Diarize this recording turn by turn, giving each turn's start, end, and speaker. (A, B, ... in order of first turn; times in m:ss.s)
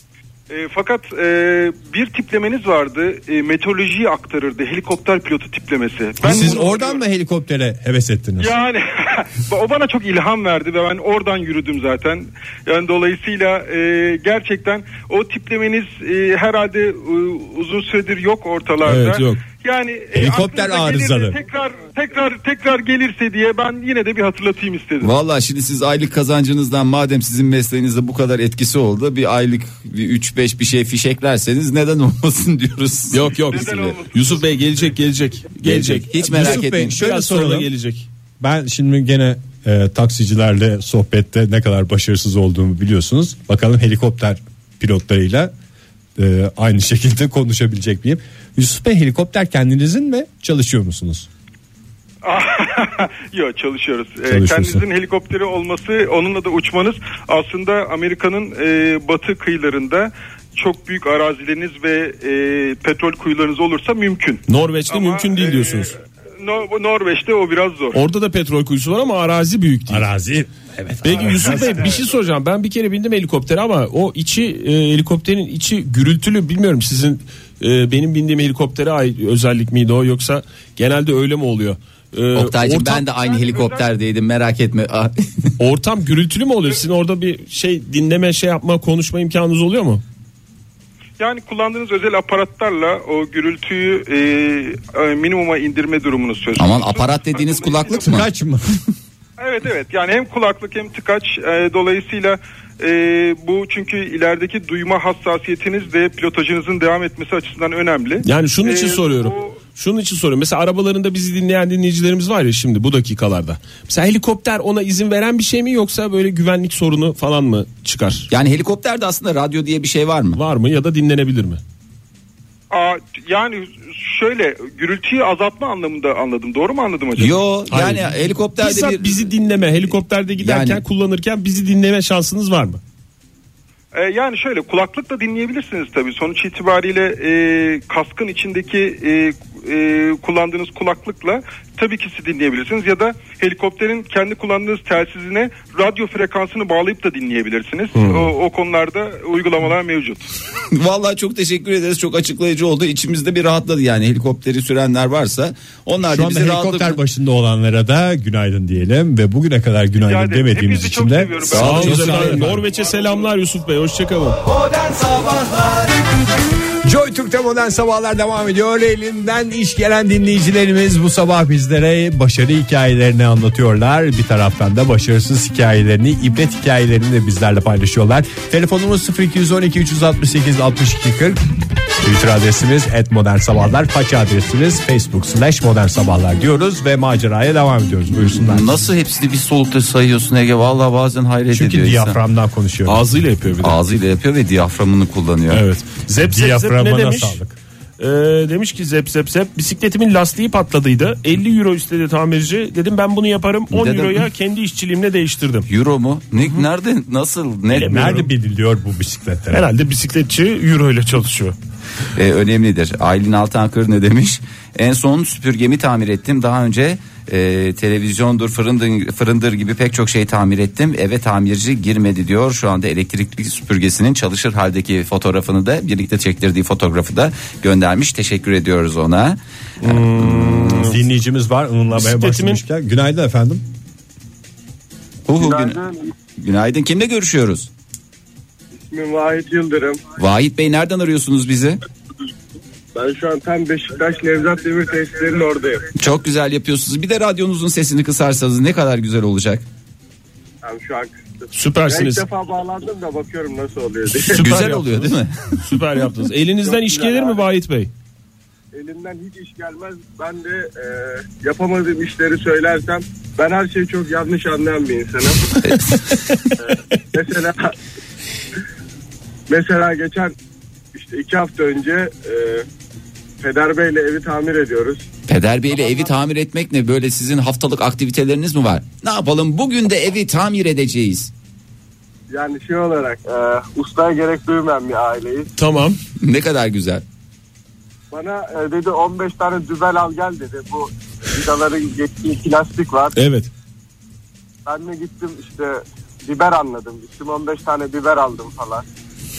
0:00.5-0:07.0 A
0:06.2-0:08.5 B
0:06.2-0:06.6 C
0:08.4-0:25.1 A
0:18.8-0:19.4 C
0:20.1-0:21.4 B
0:25.0-0:34.0 D
0:33.1-0:38.1 C
0:33.5-0:34.9 A
0:35.6-0:37.0 D
0:36.2-0:37.7 B
0:38.4-0:45.5 B
0:46.2-0:51.3 B
0:52.2-1:08.0 A
0:54.3-0:54.8 B
1:04.5-1:05.9 C
1:07.9-1:10.1 C
1:09.9-1:11.9 B
1:11.0-1:23.1 C
1:11.5-1:12.0 A
1:22.4-1:25.5 D
1:23.1-1:23.9 A
1:25.6-1:30.0 C
1:31.2-1:38.2 A
1:36.6-1:38.3 D
1:38.0-1:38.8 B
1:39.4-1:49.6 A
1:48.2-1:58.3 C
1:58.3-2:00.4 D
2:00.4-2:01.6 C
2:02.7-2:07.4 A
2:07.2-2:09.2 D
2:07.7-2:12.8 C
2:10.4-2:10.8 D
2:13.9-2:30.2 A
2:27.9-2:28.3 C
2:30.7-2:37.0 D
2:36.0-2:42.6 B
2:40.0-2:43.3 A
2:41.5-2:44.4 C
2:41.6-2:42.0 D
2:44.7-2:45.8 D
2:46.8-3:01.4 B
3:02.0-3:08.8 B
3:08.3-3:12.2 D
3:11.5-3:13.0 B
3:12.9-3:13.8 C
3:13.6-3:15.6 D
3:15.5-3:17.4 C
3:16.2-3:17.6 B
3:18.0-3:25.7 C
3:23.7-3:24.3 D
3:25.7-3:28.2 D
3:27.7-3:28.3 C
3:27.7-3:29.7 B
3:29.5-3:31.6 C
3:32.2-3:49.4 D
3:49.8-3:51.0 C
3:50.2-3:50.7 D
3:50.7-3:53.6 B
3:52.0-3:52.6 C
3:55.3-3:55.8 D
3:55.4-3:56.0 E
3:56.4-3:57.7 D
3:58.8-4:00.0 E
4:00.2-4:01.8 D
4:03.0-4:05.8 E
4:06.0-4:09.6 D
4:10.6-4:14.4 E
4:11.5-4:12.2 C
4:14.3-4:17.9 C
4:14.3-4:15.5 D
4:16.6-4:17.4 E
4:18.7-4:25.4 E
4:25.6-4:25.9 D
4:27.1-4:27.7 E
4:29.5-4:30.3 E
4:30.9-4:32.6 E
4:33.4-4:35.1 E
4:35.3-4:41.3 D
4:42.3-4:45.5 E
4:45.6-4:46.0 C
4:46.2-4:47.0 D
4:48.1-4:53.1 E
4:53.2-4:53.5 C
4:54.7-4:58.8 E